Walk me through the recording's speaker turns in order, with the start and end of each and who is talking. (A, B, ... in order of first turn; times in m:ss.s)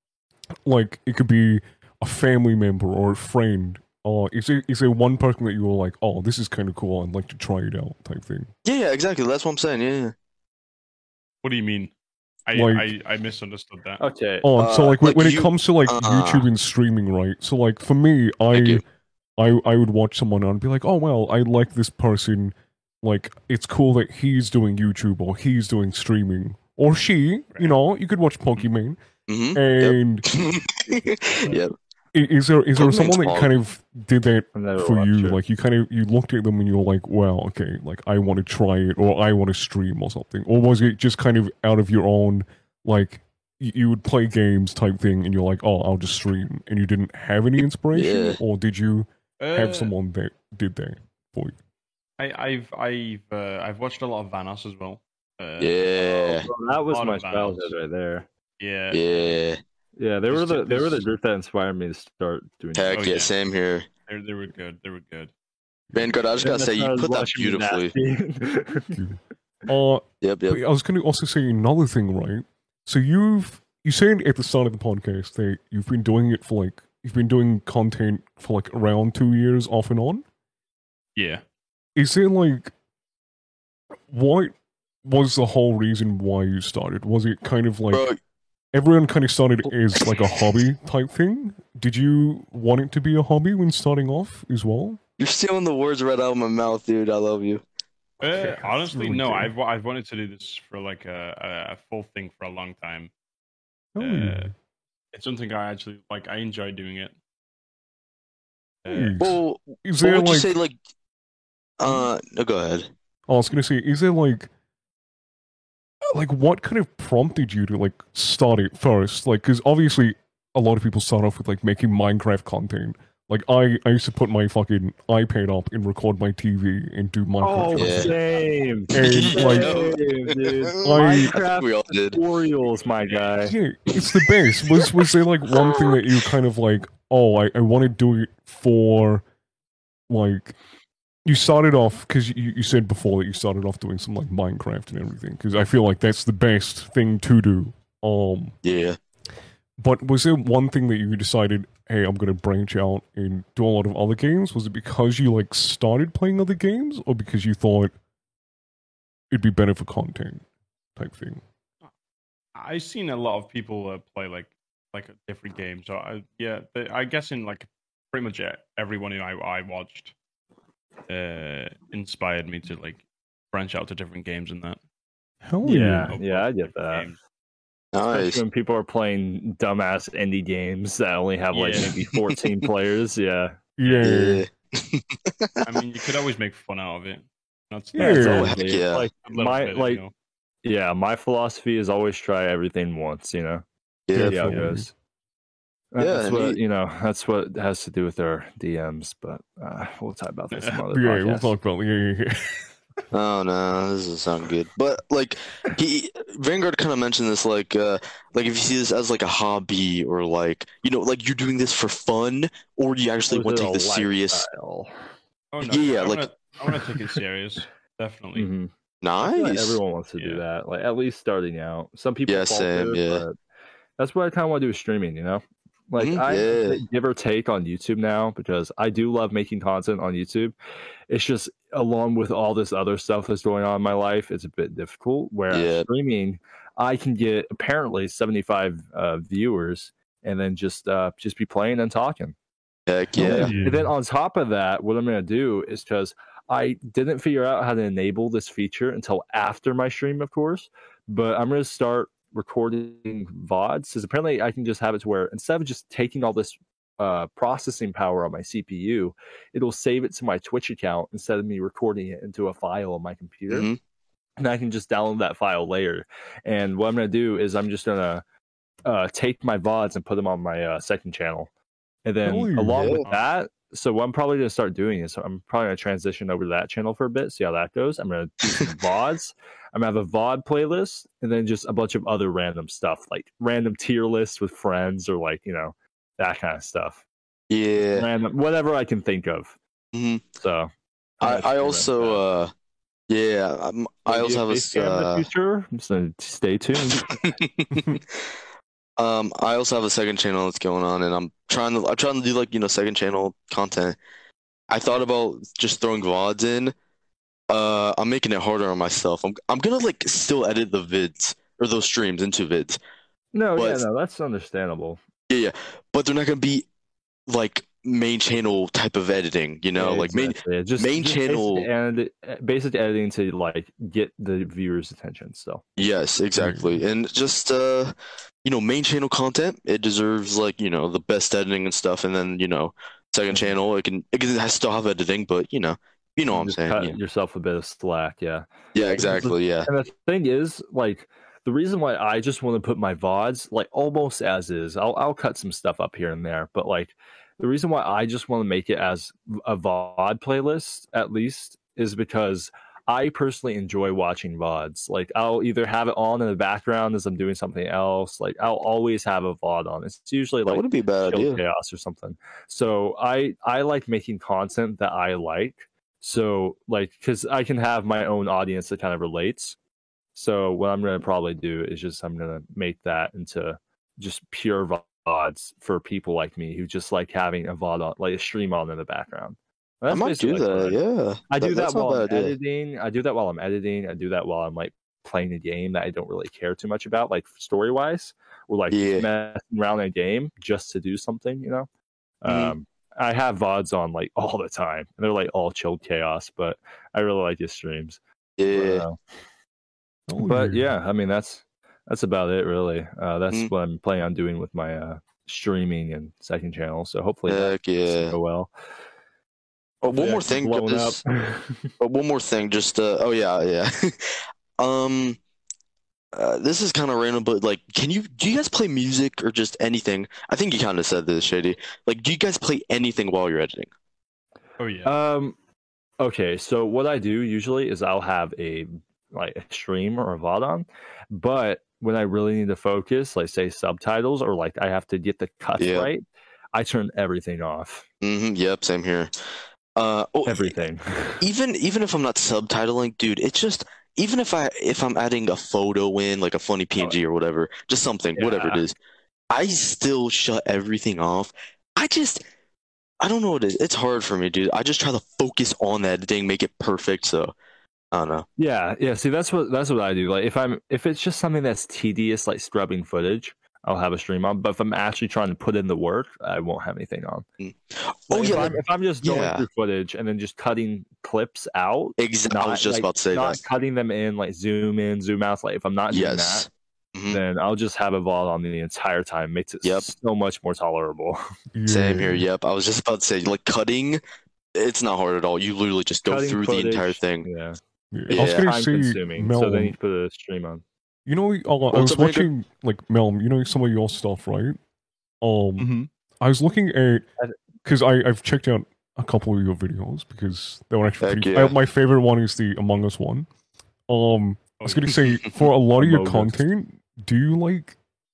0:00.7-0:08.5 A
0:08.6-0:10.1 B
0:11.4-0:11.9 C
0:12.5-0:14.0 C
0:12.5-0:12.9 A
0:14.0-0:14.5 D
0:14.4-0:18.8 A
0:14.6-0:16.5 B
0:18.5-0:18.8 B
0:19.4-0:29.0 A
0:29.3-0:31.7 B
0:29.6-0:30.3 A
0:32.1-0:51.6 A
0:32.8-0:33.5 B
0:34.5-0:35.4 D
0:47.9-0:48.4 B
0:49.4-0:49.9 C
0:52.2-0:55.9 C
0:55.6-0:56.5 B
0:56.0-0:58.3 D
0:56.9-0:57.7 C
0:58.6-0:59.4 C
0:58.9-0:59.6 B
1:00.0-1:03.1 D
1:00.3-1:01.1 C
1:02.8-1:03.9 B
1:02.9-1:03.3 C
1:04.1-1:05.3 C
1:05.9-1:07.9 B
1:06.4-1:09.0 D
1:08.9-1:20.2 A
1:10.2-1:10.6 B
1:21.2-1:21.4 C
1:22.0-1:22.7 A
1:24.1-1:28.1 A
1:27.9-1:28.2 B
1:28.7-1:35.0 A
1:35.2-1:37.6 B
1:38.2-1:43.1 C
1:38.3-1:39.5 A
1:44.0-1:44.5 A
1:44.0-1:44.5 C
1:45.1-1:47.1 C
1:48.8-1:49.2 C
1:48.9-1:50.5 A
1:49.2-1:50.8 B
1:51.8-1:52.9 B
1:53.3-1:54.5 A
1:56.1-2:08.2 A
2:07.4-2:13.6 D
2:07.8-2:08.2 B
2:08.9-2:09.8 A
2:09.0-2:12.2 B
2:10.8-2:11.4 A
2:12.9-2:13.3 C
2:13.4-2:19.2 A
2:14.7-2:16.1 B
2:20.1-2:20.6 A
2:21.2-2:28.6 A
2:28.6-2:29.0 B
2:29.8-2:37.9 A
2:39.3-2:40.4 A
2:41.0-2:41.4 A
2:42.6-2:50.1 C
2:51.1-2:54.8 C
2:55.4-2:56.1 A
2:55.6-2:57.1 D
2:55.7-2:57.2 C
2:57.9-2:58.4 B
2:58.1-3:03.6 D
3:01.5-3:02.0 C
3:03.8-3:04.5 A
3:04.0-3:05.6 B
3:05.6-3:08.6 C
3:07.9-3:08.6 A
3:08.0-3:10.0 D
3:08.2-3:09.1 B
3:09.3-3:10.1 C
3:10.6-3:13.6 D
3:14.1-3:14.6 B
3:14.1-3:14.9 A
3:14.2-3:14.9 D
3:15.9-3:21.5 D
3:16.0-3:16.6 B
3:20.5-3:20.8 C
3:20.9-3:22.5 A
3:23.1-3:34.4 B
3:33.3-3:34.9 D
3:35.5-3:38.5 C
3:35.6-3:36.3 B
3:38.4-3:43.4 D
3:39.0-3:39.8 B
3:40.2-3:40.4 C
3:42.3-3:43.2 B
3:44.0-3:50.6 D
3:46.0-3:46.8 B
3:51.1-4:02.4 D
3:55.5-3:55.9 B
4:02.9-4:03.5 B
4:03.2-4:23.7 D
4:03.2-4:03.7 A
4:03.5-4:03.8 C
4:23.5-4:23.8 B
4:24.4-4:28.2 D
4:28.8-4:31.5 D
4:32.0-4:47.0 D
4:32.2-4:33.0 A
4:47.5-4:48.1 B
4:47.9-4:49.6 D
4:49.9-4:50.2 B
4:50.4-4:52.2 D
4:51.2-4:52.5 B
4:53.1-4:55.3 B
4:54.1-4:57.3 D
4:56.9-4:58.2 B
4:59.0-5:04.0 B
5:04.7-5:06.8 B
5:07.5-5:12.8 B
5:13.3-5:15.0 D
5:13.6-5:13.8 B
5:15.3-5:16.7 B
5:17.3-5:21.7 B
5:19.8-5:25.6 D
5:25.8-5:37.0 B
5:26.4-5:26.8 A
5:36.3-6:09.6 D
5:38.8-5:39.7 B
6:00.5-6:01.4 B
6:10.2-6:20.8 D
6:19.9-6:22.4 B
6:21.3-6:31.7 D
6:28.7-6:29.1 B
6:32.2-6:38.0 D
6:32.3-6:32.5 B
6:38.4-6:38.8 B
6:38.5-6:39.0 D
6:40.1-6:40.7 A
6:40.2-6:48.5 D
6:47.3-6:48.2 B
6:49.8-6:51.0 B
6:49.9-6:51.7 D
6:51.8-6:55.2 B
6:56.1-7:03.7 B
7:04.6-7:04.9 C
7:04.8-7:05.4 D
7:06.0-7:17.9 D
7:15.6-7:15.9 B
7:18.0-7:19.1 B
7:19.8-7:20.5 B
7:20.3-7:21.2 D
7:21.2-7:28.8 B
7:28.2-7:28.6 D
7:29.3-7:32.2 B
7:33.0-7:37.3 B
7:37.9-7:38.3 B
7:38.4-7:47.3 D
7:47.4-7:49.4 B
7:48.1-7:56.5 D
7:52.0-7:53.4 B
7:55.9-7:57.2 B
7:57.1-8:01.2 D
8:01.5-8:02.2 A
8:01.7-8:04.0 B
8:04.6-8:07.3 B
8:06.0-8:07.6 D
8:07.9-8:09.8 A
8:08.1-8:08.5 B
8:08.1-8:10.6 D
8:11.1-8:14.6 A
8:11.7-8:12.3 B
8:15.2-8:17.1 A
8:15.6-8:15.9 C
8:17.6-8:23.3 A
8:21.0-8:21.6 B
8:23.9-8:27.8 A
8:24.6-8:25.1 C
8:25.8-8:26.4 D